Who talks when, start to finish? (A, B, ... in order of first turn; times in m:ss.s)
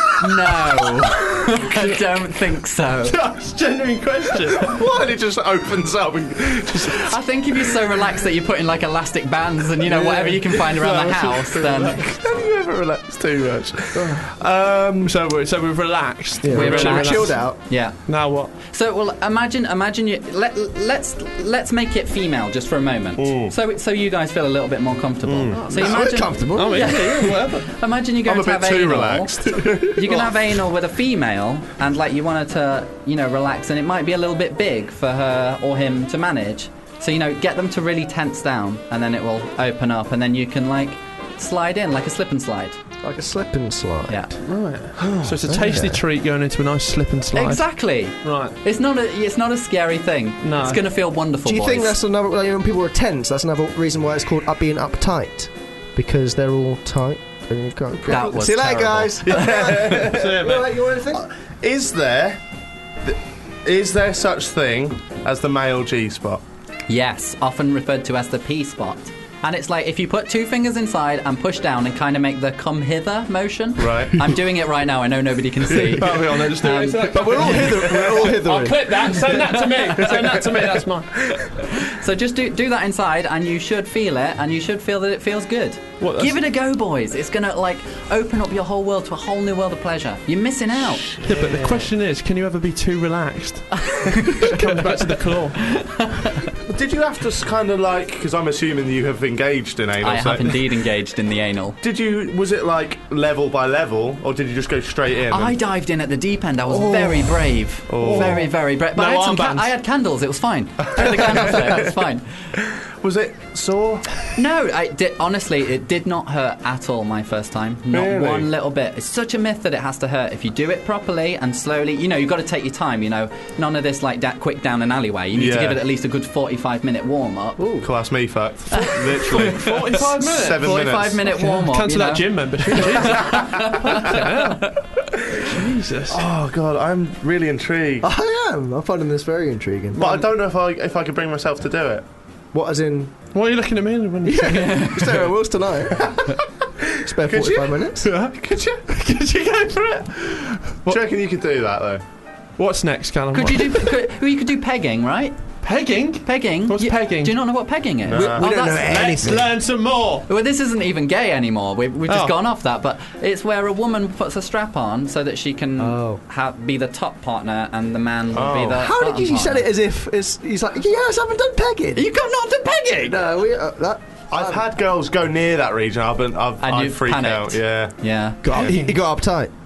0:00.2-0:03.2 A
0:03.0-0:04.8 B
0:04.6-0:07.2 C
0:06.9-0:12.0 A
0:09.9-0:12.0 B
0:11.9-0:15.2 C
0:14.0-0:14.2 D
0:15.0-0:18.5 B
0:16.4-0:17.6 D
0:16.5-0:42.8 A
0:23.2-0:23.5 C
0:25.3-0:25.7 C
0:25.5-0:27.7 B
0:25.7-0:27.1 D
0:28.2-0:30.4 C
0:43.0-0:44.3 D
0:44.1-0:44.4 A
0:44.4-0:47.6 B
0:45.0-0:45.6 C
0:45.5-0:46.0 D
0:47.4-0:52.0 A
0:48.2-0:48.6 B
0:50.4-0:50.8 B
0:51.4-1:01.2 D
0:58.1-0:59.4 A
0:59.2-1:00.4 C
1:00.0-1:00.8 B
1:01.1-1:02.4 C
1:03.0-1:06.4 C
1:06.9-1:17.7 A
1:13.8-1:14.3 C
1:15.7-1:21.4 B
1:15.8-1:16.2 C
1:17.1-1:19.4 D
1:19.5-1:19.9 A
1:20.0-1:21.5 C
1:21.8-1:31.2 A
1:26.0-1:26.4 B
1:30.9-1:31.9 C
1:31.2-1:35.8 B
1:33.8-1:34.6 A
1:35.6-1:36.4 A
1:36.7-1:40.7 C
1:40.0-1:41.8 A
1:41.8-1:45.6 C
1:45.3-1:52.3 A
1:46.8-1:47.3 B
1:47.9-1:48.5 C
1:48.0-1:49.7 B
1:50.8-1:52.0 C
1:52.8-1:54.3 C
1:54.4-2:07.8 A
1:57.9-1:58.5 C
2:05.3-2:05.8 C
2:07.6-2:07.9 D
2:07.8-2:11.2 C
2:08.7-2:14.9 A
2:09.4-2:14.8 B
2:12.7-2:14.2 C
2:15.3-2:15.6 C
2:15.4-2:16.2 B
2:16.1-2:18.1 C
2:18.0-2:20.3 D
2:20.0-2:22.0 C
2:22.5-2:23.1 D
2:23.3-2:25.2 B
2:24.2-2:26.2 D
2:24.6-2:25.1 A
2:26.0-2:28.8 C
2:27.0-2:28.1 D
2:28.0-2:28.4 B
2:28.9-2:31.0 B
2:30.9-2:32.0 C
2:32.6-2:33.9 B
2:33.3-2:35.5 A
2:35.6-2:37.4 B
2:36.2-2:38.9 A
2:38.1-2:38.5 C
2:38.2-2:39.5 D
2:38.7-2:40.3 B
2:40.3-2:49.7 A
2:42.1-2:42.4 B
2:45.8-2:46.2 D
2:48.3-2:48.9 C
2:48.8-2:52.1 D
2:52.0-2:53.2 A
2:53.0-2:54.6 D
2:54.3-2:57.9 C
2:56.6-2:58.4 A
2:58.4-2:59.5 D
2:58.5-2:58.9 B